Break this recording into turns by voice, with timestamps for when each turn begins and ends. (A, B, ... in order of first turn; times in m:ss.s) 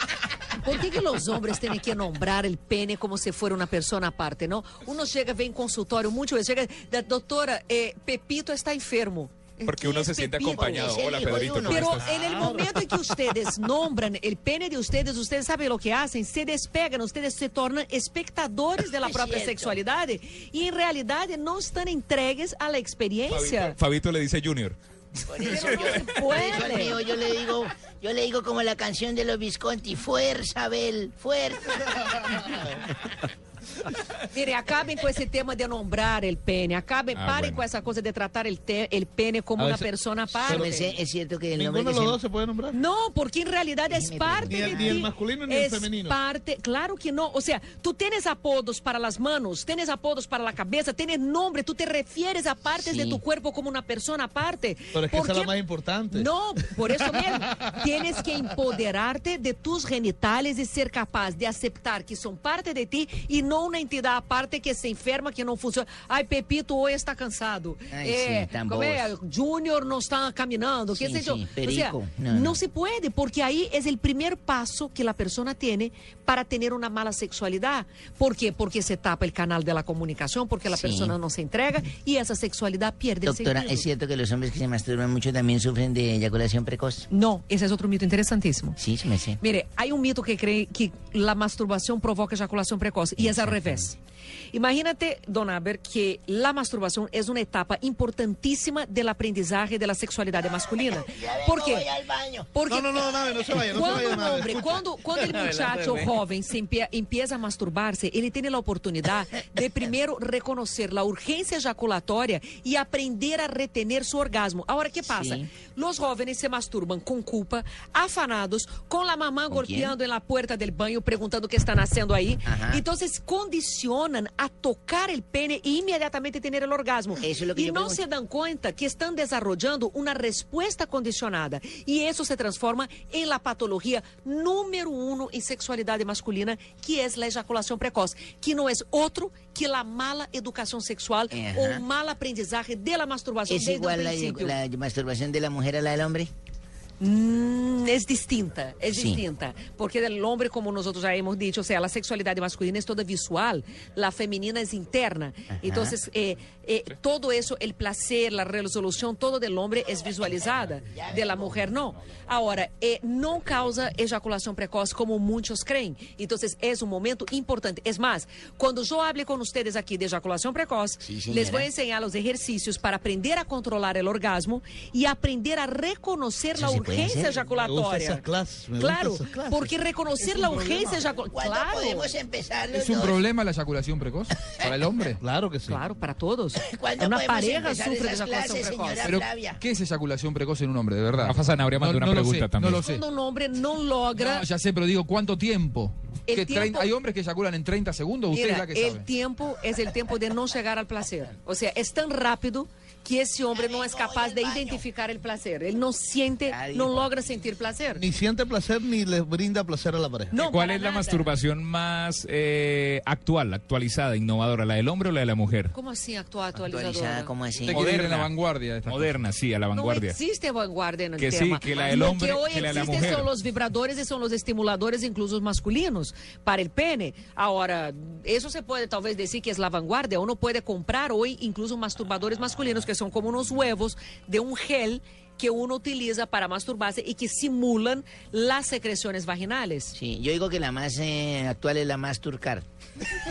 0:00.6-0:11.0 A
0:09.6-0:12.0 B
0:10.4-0:12.6 C
0:11.6-0:23.8 A
0:12.1-0:12.6 D
0:19.0-0:19.8 C
0:23.3-0:26.1 B
0:25.3-0:32.5 C
0:25.4-0:27.0 A
0:32.4-0:32.8 D
0:34.3-0:40.9 A
0:37.1-0:37.6 B
0:39.6-0:40.8 D
0:40.4-0:42.2 C
0:41.6-0:42.8 D
0:42.7-0:55.5 A
0:43.9-0:45.0 C
0:44.5-0:46.2 D
0:52.8-0:53.2 C
0:54.9-0:57.9 D
0:56.1-1:23.8 A
1:07.9-1:09.1 C
1:10.9-1:12.6 C
1:20.7-1:21.2 C
1:23.2-1:27.1 C
1:27.1-1:28.8 A
1:28.8-1:29.4 C
1:29.4-1:34.0 A
1:33.2-1:33.9 C
1:34.5-1:41.9 A
1:41.0-1:42.5 C
1:42.5-1:43.0 A
1:42.7-1:45.7 D
1:43.7-2:24.6 A
1:55.1-1:55.5 C
1:59.5-1:59.9 C
2:02.4-2:02.8 C
2:07.2-2:08.0 C
2:21.3-2:21.8 C
2:23.5-2:26.3 C
2:27.0-2:58.2 A
2:28.9-2:29.2 C
2:35.6-2:35.9 C
2:40.8-2:41.6 C
2:51.0-2:51.7 C
2:56.5-2:57.3 C
2:57.6-3:01.0 D
2:58.8-3:02.1 A
3:01.2-3:03.2 C
3:02.7-3:05.2 E
3:05.2-3:05.8 D
3:05.7-3:09.1 A
3:06.6-3:09.6 C
3:09.0-3:13.0 E
3:11.2-3:12.8 B
3:12.8-3:14.4 A
3:14.1-3:19.1 E
3:16.3-3:16.9 A
3:18.3-3:28.0 A
3:23.5-3:24.8 C
3:26.4-3:27.2 C
3:27.9-3:30.4 D
3:30.3-3:31.3 A
3:30.3-3:35.7 B
3:35.7-3:37.3 A
3:36.5-3:38.0 C
3:37.6-3:39.1 E
3:37.7-3:38.3 B
3:38.8-3:40.2 B
3:39.7-3:59.9 A
3:41.2-3:43.3 B
3:59.9-4:02.6 C